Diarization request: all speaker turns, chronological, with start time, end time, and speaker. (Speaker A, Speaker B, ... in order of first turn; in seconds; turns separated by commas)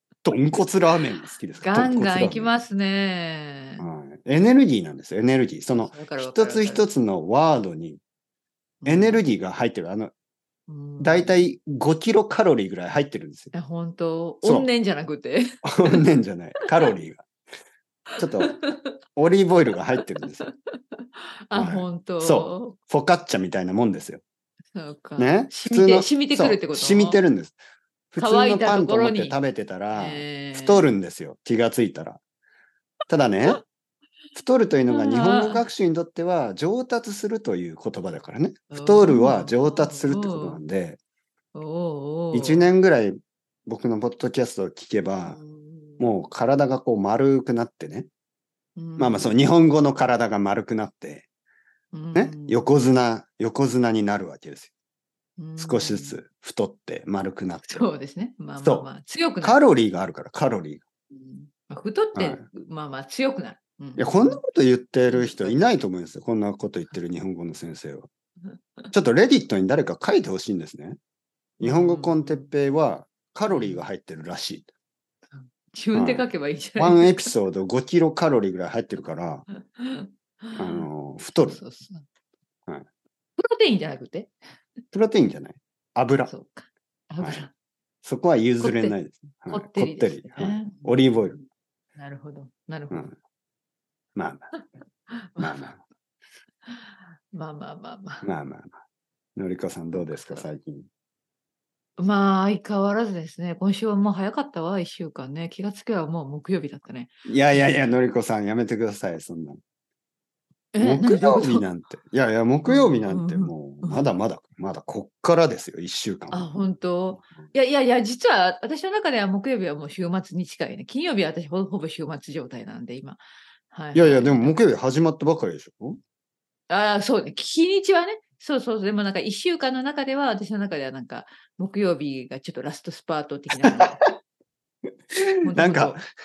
Speaker A: 0.2-2.5, Speaker B: 1.6-3.9, Speaker A: 3.8-8.0, Speaker B: 5.7-6.9, Speaker B: 8.8-9.2, Speaker A: 8.8-10.1, Speaker B: 10.7-11.4, Speaker A: 11.0-13.5, Speaker B: 13.5-16.0, Speaker A: 14.4-14.7, Speaker A: 15.6-17.3, Speaker A: 18.2-18.6, Speaker B: 18.4-18.9, Speaker A: 19.2-20.5, Speaker B: 20.2-22.8, Speaker A: 21.5-24.2, Speaker B: 24.7-27.2, Speaker A: 25.2-27.6, Speaker A: 28.1-32.2, Speaker B: 28.2-29.4, Speaker B: 29.9-30.9, Speaker A: 33.1-33.6, Speaker A: 34.4-41.0, Speaker B: 34.9-35.6, Speaker B: 38.7-40.6, Speaker B: 41.5-42.7, Speaker A: 42.3-45.4, Speaker B: 45.3-46.1, Speaker A: 46.0-48.1, Speaker B: 48.8-49.3, Speaker A: 49.0-51.3, Speaker B: 51.9-52.8, Speaker A: 52.1-54.7, Speaker B: 55.4-56.2, Speaker A: 55.6-57.9, Speaker B: 57.7-59.6, Speaker A: 58.6-58.9, Speaker A: 59.4-60.8, Speaker B: 61.1-64.4, Speaker A: 62.2-62.4, Speaker A: 64.0-68.1, Speaker B: 65.1-65.6, Speaker B: 68.5-68.9, Speaker A: 68.9-71.0, Speaker A: 71.6-74.7, Speaker B: 71.6-72.5, Speaker B: 73.5-73.9, Speaker B: 75.3-77.3, Speaker A: 75.9-76.3, Speaker A: 76.8-79.5, Speaker B: 79.5-80.9, Speaker A: 80.6-81.6, Speaker B: 81.5-82.0, Speaker B: 83.4-84.3, Speaker A: 84.9-86.3, Speaker B: 86.3-87.5, Speaker A: 88.0-91.4, Speaker B: 88.6-89.0, Speaker B: 89.5-93.1, Speaker A: 94.2-94.5, Speaker B: 94.5-95.7, Speaker A: 95.4-95.8, Speaker B: 96.7-98.3, Speaker A: 98.2-98.8, Speaker A: 99.4-100.9, Speaker B: 99.9-100.5, Speaker B: 102.0-107.8, Speaker A: 107.3-109.6, Speaker B: 110.7-111.7, Speaker A: 110.8-116.5, Speaker B: 112.7-114.1, Speaker B: 116.3-124.6, Speaker A: 123.9-126.0, Speaker B: 126.7-134.0, Speaker A: 133.6-134.2, Speaker A: 135.1-136.0, Speaker B: 135.4-136.0